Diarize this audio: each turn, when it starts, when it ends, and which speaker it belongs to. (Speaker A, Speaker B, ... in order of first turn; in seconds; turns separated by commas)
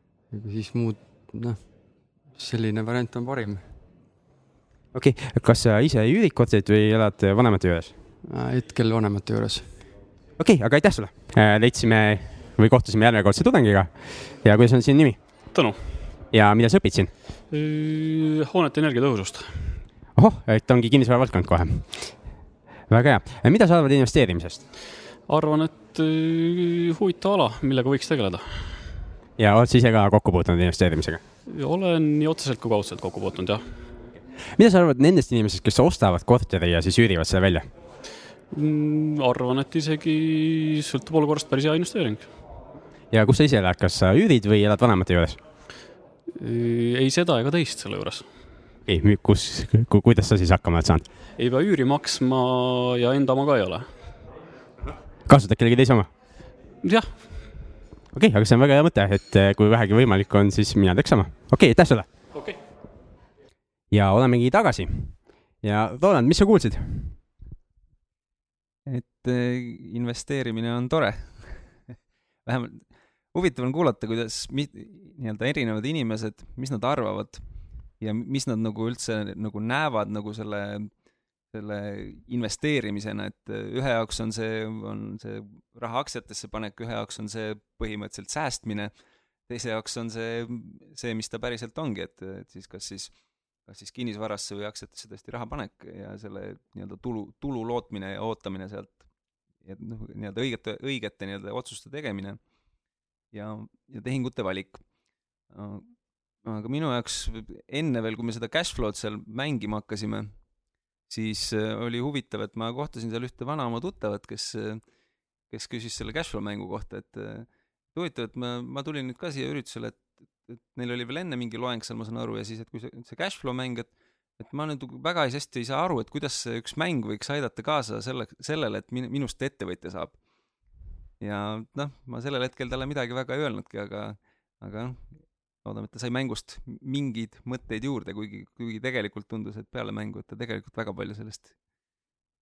Speaker A: 0.3-3.7, Speaker B: 4.9-7.9, Speaker A: 8.2-9.8, Speaker B: 10.4-15.2, Speaker C: 15.5-15.8, Speaker B: 16.3-17.1, Speaker C: 17.5-19.8, Speaker B: 20.1-22.3, Speaker B: 22.9-24.6, Speaker C: 25.2-28.9, Speaker B: 29.4-31.2, Speaker C: 31.5-33.7, Speaker B: 34.5-37.7, Speaker C: 38.5-42.3, Speaker B: 43.1-45.4, Speaker C: 46.3-48.4, Speaker B: 48.9-51.1, Speaker C: 51.4-54.2, Speaker B: 55.2-56.1, Speaker C: 56.8-57.5, Speaker B: 58.1-62.1, Speaker B: 63.9-67.2, Speaker D: 68.9-71.9, Speaker D: 72.5-77.5, Speaker D: 78.0-80.9, Speaker D: 81.5-88.9, Speaker D: 89.5-102.4, Speaker D: 103.3-104.9, Speaker D: 105.5-110.5, Speaker D: 111.1-114.8, Speaker D: 115.5-130.2, Speaker D: 131.2-141.5